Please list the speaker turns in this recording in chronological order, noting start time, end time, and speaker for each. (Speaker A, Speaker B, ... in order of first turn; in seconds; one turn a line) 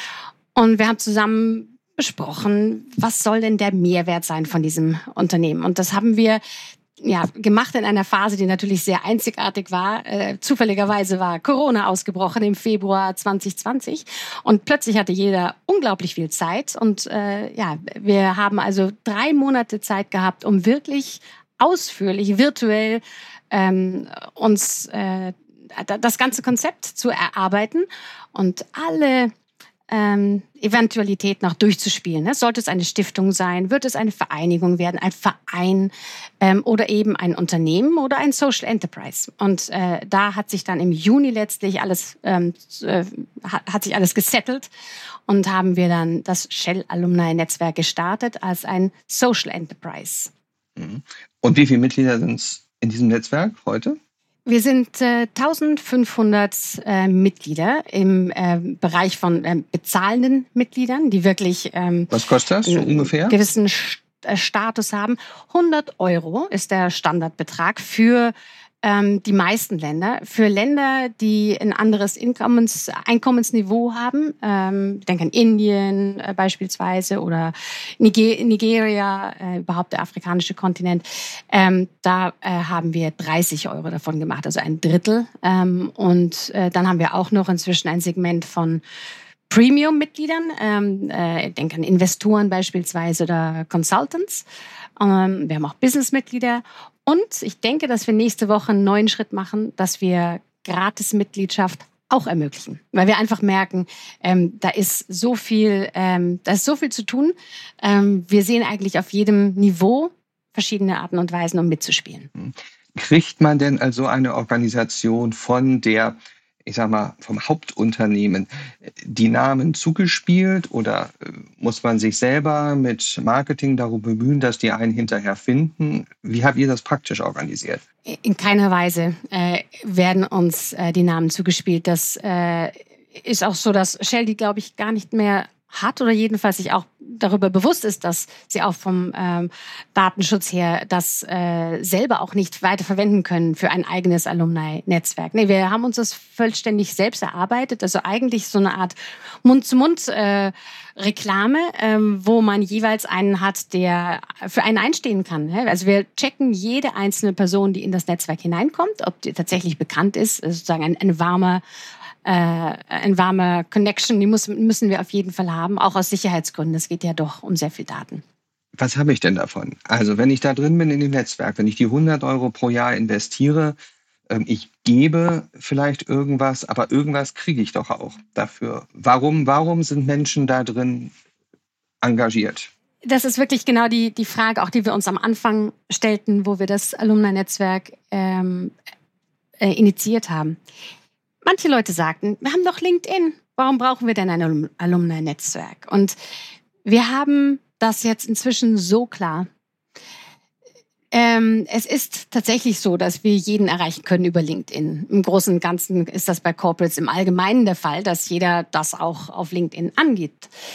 Speaker A: 0.6-6.4
Speaker A: 7.0-29.3
Speaker A: 29.9-44.7
Speaker A: 45.3-50.3
Speaker B: 50.8-54.0
Speaker A: 54.5-62.1
Speaker B: 62.1-63.4
Speaker A: 62.6-88.8
Speaker A: 89.5-94.5
Speaker A: 95.0-112.3
Speaker B: 112.4-127.8
Speaker A: 128.1-161.6
Speaker A: 162.2-168.2
Speaker B: 168.8-173.8
Speaker B: 174.3-181.1
Speaker B: 182.0-182.7
Speaker A: 183.1-188.8
Speaker A: 189.6-190.6
Speaker A: 191.4-196.2
Speaker A: 196.8-199.5
Speaker A: 201.1-210.5